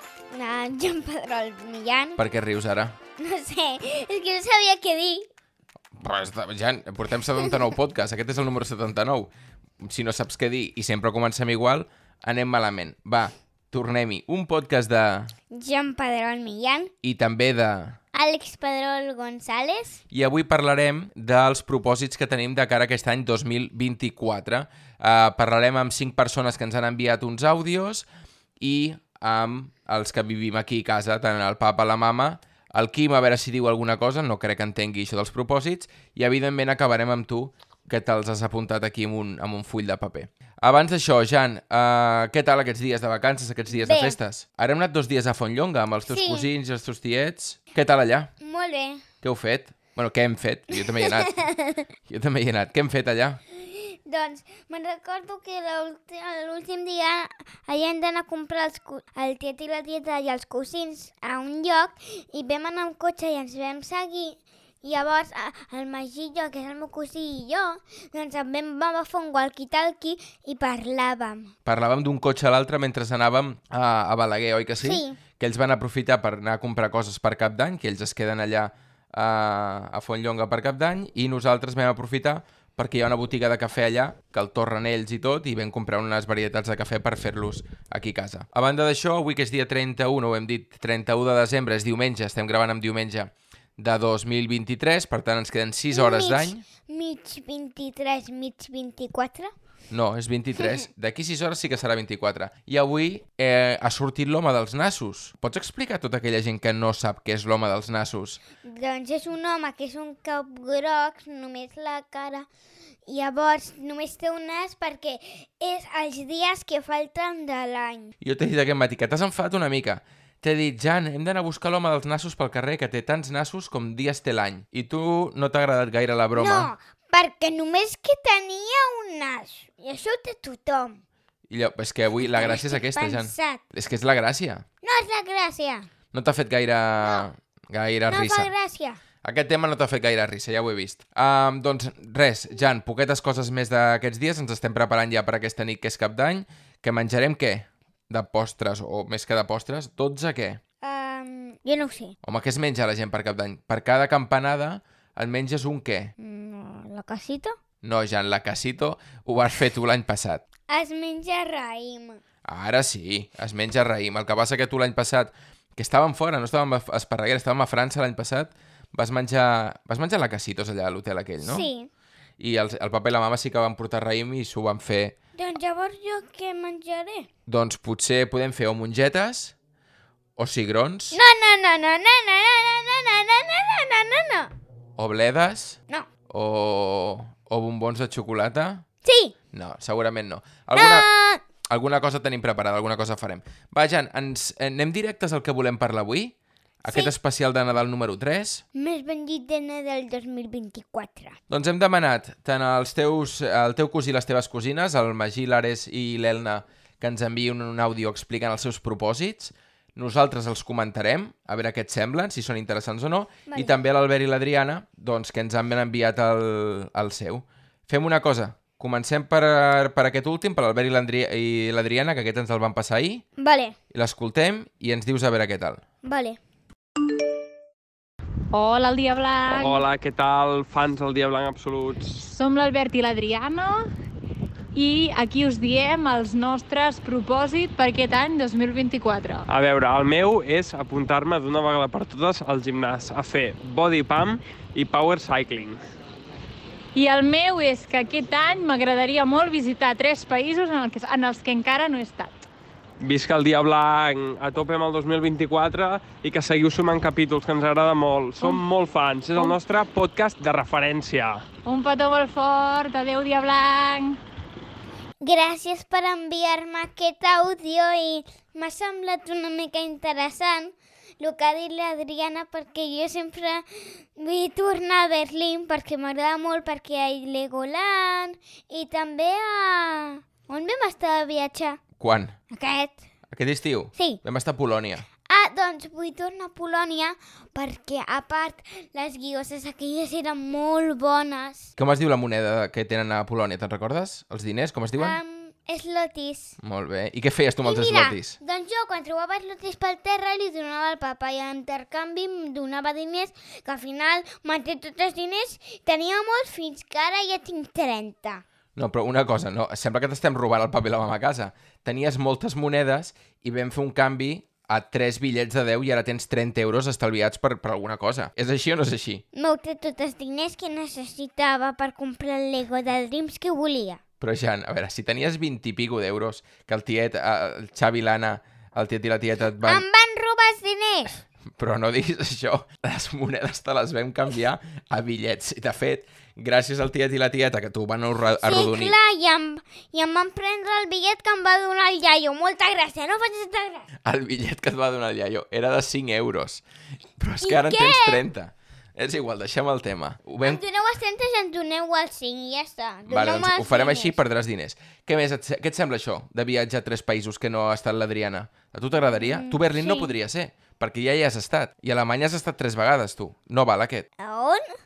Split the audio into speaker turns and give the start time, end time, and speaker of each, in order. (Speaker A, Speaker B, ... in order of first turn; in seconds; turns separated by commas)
Speaker A: 0.3-2.2, Speaker B: 2.2-3.0, Speaker A: 3.2-5.3, Speaker B: 6.0-15.3, Speaker A: 15.5-16.9, Speaker B: 17.0-18.0, Speaker A: 18.1-20.0, Speaker B: 20.1-28.1, Speaker B: 28.6-48.3, Speaker A: 43.7-44.2, Speaker A: 46.1-46.5, Speaker A: 48.4-49.0, Speaker B: 49.2-51.3, Speaker A: 50.8-51.9, Speaker B: 52.1-53.4, Speaker A: 53.5-71.5, Speaker B: 71.6-96.6, Speaker A: 74.8-75.2, Speaker A: 95.9-99.5, Speaker B: 99.9-108.4, Speaker A: 108.6-112.5, Speaker A: 113.1-118.1, Speaker B: 118.2-126.7, Speaker A: 126.3-131.0, Speaker B: 131.5-134.6, Speaker A: 132.2-133.6, Speaker A: 134.8-135.9, Speaker B: 136.1-138.5, Speaker A: 137.0-137.3, Speaker A: 138.1-139.0, Speaker B: 139.2-150.6, Speaker A: 150.8-152.1, Speaker B: 152.2-156.1, Speaker A: 156.2-157.6, Speaker B: 157.8-160.4, Speaker A: 160.7-162.2, Speaker B: 162.4-171.7, Speaker A: 171.4-171.9, Speaker B: 172.4-175.2, Speaker A: 175.4-177.3, Speaker B: 177.5-179.5, Speaker B: 180.4-181.2, Speaker A: 181.1-184.5, Speaker B: 185.0-185.8, Speaker B: 186.3-188.8, Speaker A: 189.0-189.3, Speaker B: 189.5-191.1, Speaker A: 190.7-191.4, Speaker B: 191.7-198.6, Speaker A: 196.9-197.1, Speaker A: 198.7-201.4, Speaker B: 201.5-223.2, Speaker A: 223.4-223.8, Speaker B: 223.9-225.8, Speaker A: 226.0-226.4, Speaker C: 228.5-229.9, Speaker D: 229.5-232.2, Speaker C: 232.2-233.8, Speaker C: 234.7-239.4, Speaker D: 239.5-245.8, Speaker C: 246.9-252.3, Speaker D: 253.0-261.5, Speaker C: 261.6-264.2, Speaker A: 265.2-281.8, Speaker B: 282.0-282.4, Speaker A: 282.5-283.0, Speaker B: 283.3-285.0, Speaker A: 285.2-291.7, Speaker B: 291.8-295.2, Speaker A: 295.0-296.6, Speaker B: 296.6-298.4, Speaker A: 297.6-308.4, Speaker B: 308.8-319.2, Speaker A: 319.3-324.0, Speaker B: 324.2-329.8, Speaker A: 329.6-331.2, Speaker B: 331.6-338.9, Speaker A: 338.4-343.9, Speaker B: 344.0-346.6, Speaker B: 347.2-350.6, Speaker A: 347.4-348.2, Speaker A: 350.4-354.2, Speaker B: 353.1-364.1, Speaker A: 359.0-360.1, Speaker A: 364.2-364.7